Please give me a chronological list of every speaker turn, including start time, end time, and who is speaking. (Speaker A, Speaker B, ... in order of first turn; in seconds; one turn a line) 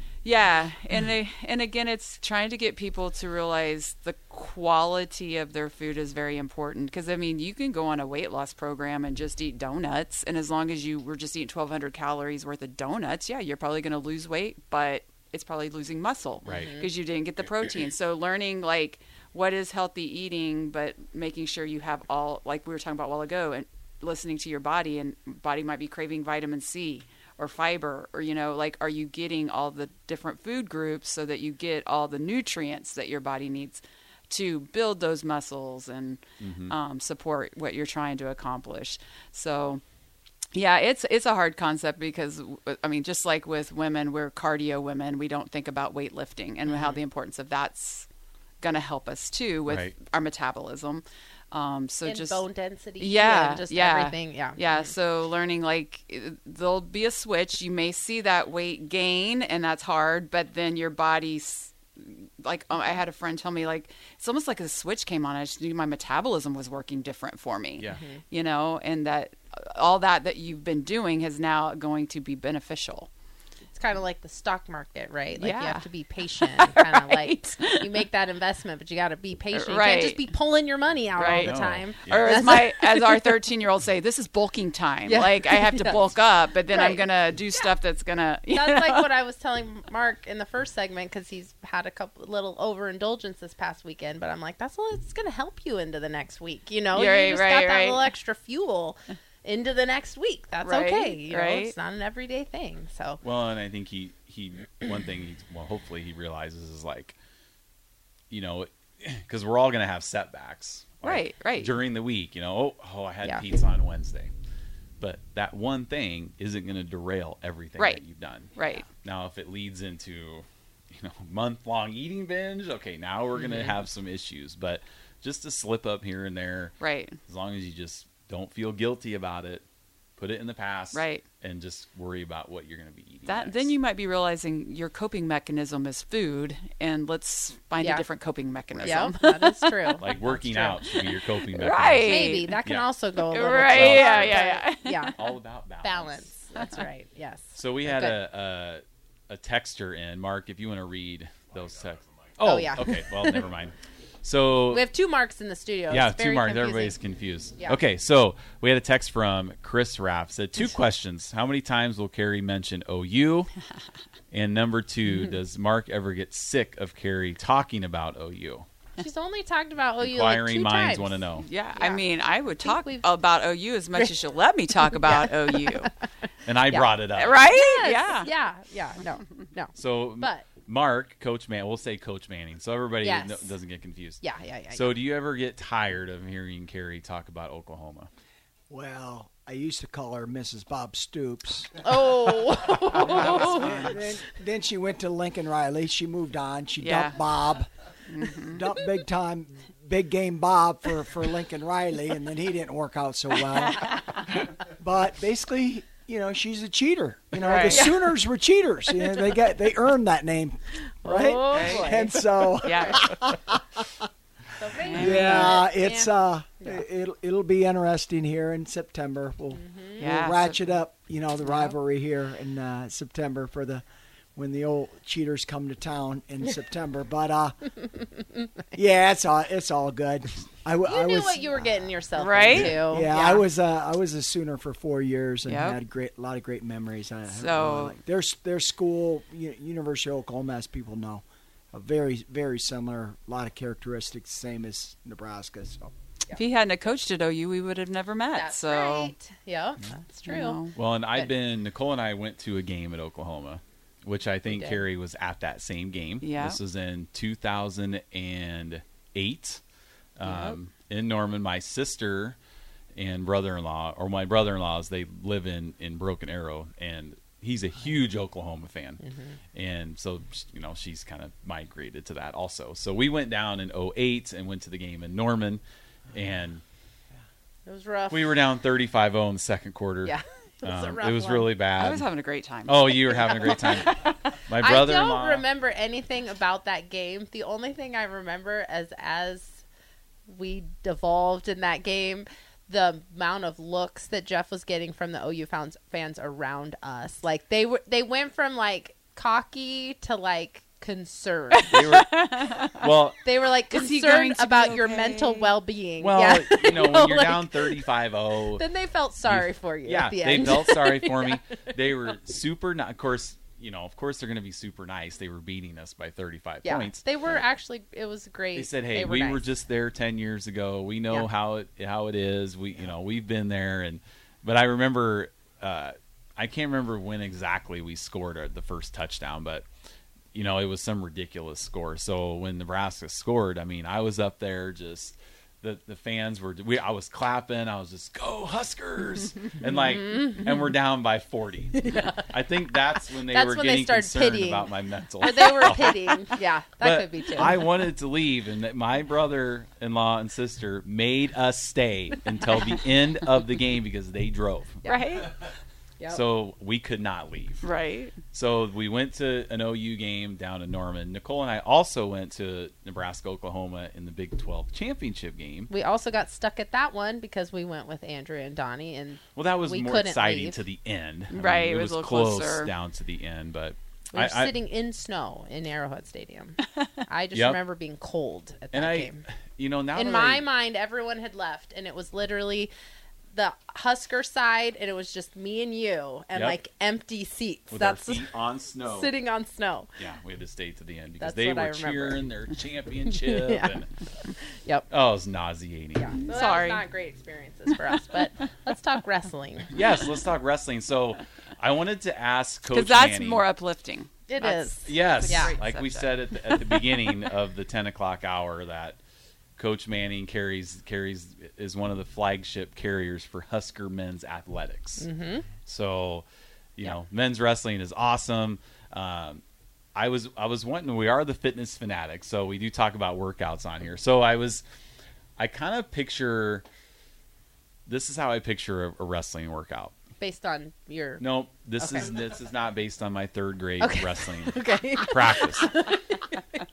Speaker A: 0.2-39.8
Speaker B: 16.4-16.8
Speaker C: 16.5-16.9
Speaker B: 36.4-36.7
Speaker A: 40.5-48.1
Speaker C: 46.7-47.0
Speaker A: 48.6-52.4
Speaker B: 49.7-49.9
Speaker C: 52.0-54.9
Speaker A: 53.0-73.1
Speaker C: 67.9-68.2
Speaker C: 73.7-83.3
Speaker A: 75.4-78.1
Speaker A: 79.5-80.2
Speaker A: 81.2-89.1
Speaker B: 81.4-82.5
Speaker C: 85.0-86.1
Speaker C: 86.7-87.0
Speaker C: 88.5-103.2
Speaker A: 96.9-98.1
Speaker A: 100.6-101.8
Speaker B: 103.2-107.2
Speaker B: 108.3-114.3
Speaker A: 111.0-111.8
Speaker B: 115.0-129.7
Speaker A: 118.5-118.9
Speaker A: 123.4-123.7
Speaker A: 126.8-127.2
Speaker B: 130.2-133.7
Speaker A: 130.9-131.3
Speaker A: 133.3-140.0
Speaker C: 137.8-138.1
Speaker B: 138.7-139.0
Speaker C: 138.8-140.8
Speaker B: 140.0-142.9
Speaker A: 140.5-142.6
Speaker C: 142.1-145.2
Speaker A: 143.3-145.2
Speaker B: 143.4-144.5
Speaker B: 145.2-146.3
Speaker C: 145.8-148.2
Speaker B: 147.6-154.8
Speaker C: 152.4-153.4
Speaker C: 154.7-157.0
Speaker B: 155.9-163.5
Speaker B: 164.3-168.7
Speaker A: 165.1-165.3
Speaker C: 169.0-171.2
Speaker B: 170.0-171.5
Speaker A: 171.4-175.9
Speaker C: 171.8-173.1
Speaker C: 174.9-176.1
Speaker B: 176.5-177.4
Speaker C: 176.7-180.5
Speaker A: 177.2-178.3
Speaker B: 179.8-188.1
Speaker C: 183.0-183.6
Speaker C: 184.2-185.0
Speaker D: 188.7-191.8
Speaker C: 191.8-193.8
Speaker D: 192.9-197.7
Speaker A: 196.8-197.2
Speaker A: 198.1-198.6
Speaker D: 198.4-214.1
Speaker A: 203.8-204.2
Speaker A: 207.4-208.1
Speaker C: 208.9-209.4
Speaker C: 211.0-212.2
Speaker A: 211.5-212.0
Speaker A: 212.5-213.2
Speaker C: 214.6-216.8
Speaker D: 214.8-223.8
Speaker A: 214.8-215.6
Speaker C: 219.5-220.0
Speaker A: 220.0-220.6
Speaker A: 221.5-221.7
Speaker D: 224.4-227.6
Speaker D: 228.7-245.9
Speaker C: 230.8-233.4
Speaker A: 232.2-232.8
Speaker A: 235.5-235.8
Speaker A: 237.3-238.0
Speaker A: 246.3-249.1
Speaker C: 248.3-250.6
Speaker A: 250.2-250.7
Speaker B: 250.8-259.6
Speaker C: 254.5-254.8
Speaker A: 256.2-256.6
Speaker B: 260.2-262.4
Speaker C: 260.3-260.6
Speaker B: 263.0-269.0
Speaker C: 269.0-269.4
Speaker B: 269.5-276.6
Speaker C: 277.7-278.4
Speaker B: 278.1-282.1
Speaker C: 280.1-281.6
Speaker A: 281.8-284.1
Speaker B: 282.7-285.4
Speaker C: 284.5-289.6
Speaker C: 290.3-301.8
Speaker A: 301.6-302.9
Speaker B: 301.7-302.2
Speaker B: 302.8-303.2
Speaker C: 303.2-307.9
Speaker A: 303.7-305.5
Speaker B: 306.0-308.6
Speaker C: 308.5-311.4
Speaker B: 309.2-317.0
Speaker C: 316.6-319.5
Speaker B: 318.6-329.7
Speaker B: 330.3-346.2
Speaker C: 340.0-340.4
Speaker C: 341.8-342.3
Speaker C: 343.2-347.6
Speaker B: 346.8-354.9
Speaker A: 354.9-355.3
Speaker B: 356.1-357.7
Speaker A: 357.6-358.2
Speaker B: 358.3-365.7
Speaker C: 365.7-370.6
Speaker B: 369.4-374.6
Speaker A: 371.3-372.7
Speaker C: 374.1-379.2
Speaker B: 377.3-377.6
Speaker B: 378.7-380.5
Speaker C: 379.9-382.7
Speaker C: 383.3-389.9
Speaker B: 386.3-386.6
Speaker B: 387.7-389.1
Speaker B: 390.0-393.9
Speaker C: 391.2-392.3
Speaker C: 393.1-393.8
Speaker C: 394.4-394.9
Speaker B: 394.9-396.2
Speaker C: 396.0-399.7
Speaker A: 396.2-396.9
Speaker B: 399.7-403.5
Speaker A: 402.7-407.1
Speaker C: 404.3-405.6
Speaker B: 404.9-409.0
Speaker B: 409.6-415.1
Speaker C: 415.0-415.5
Speaker B: 415.6-416.3
Speaker B: 416.8-419.4
Speaker B: 419.9-424.6
Speaker B: 425.4-426.6
Speaker B: 427.9-430.0
Speaker C: 430.2-431.2
Speaker B: 431.2-435.9
Speaker C: 431.8-432.1
Speaker C: 433.8-436.6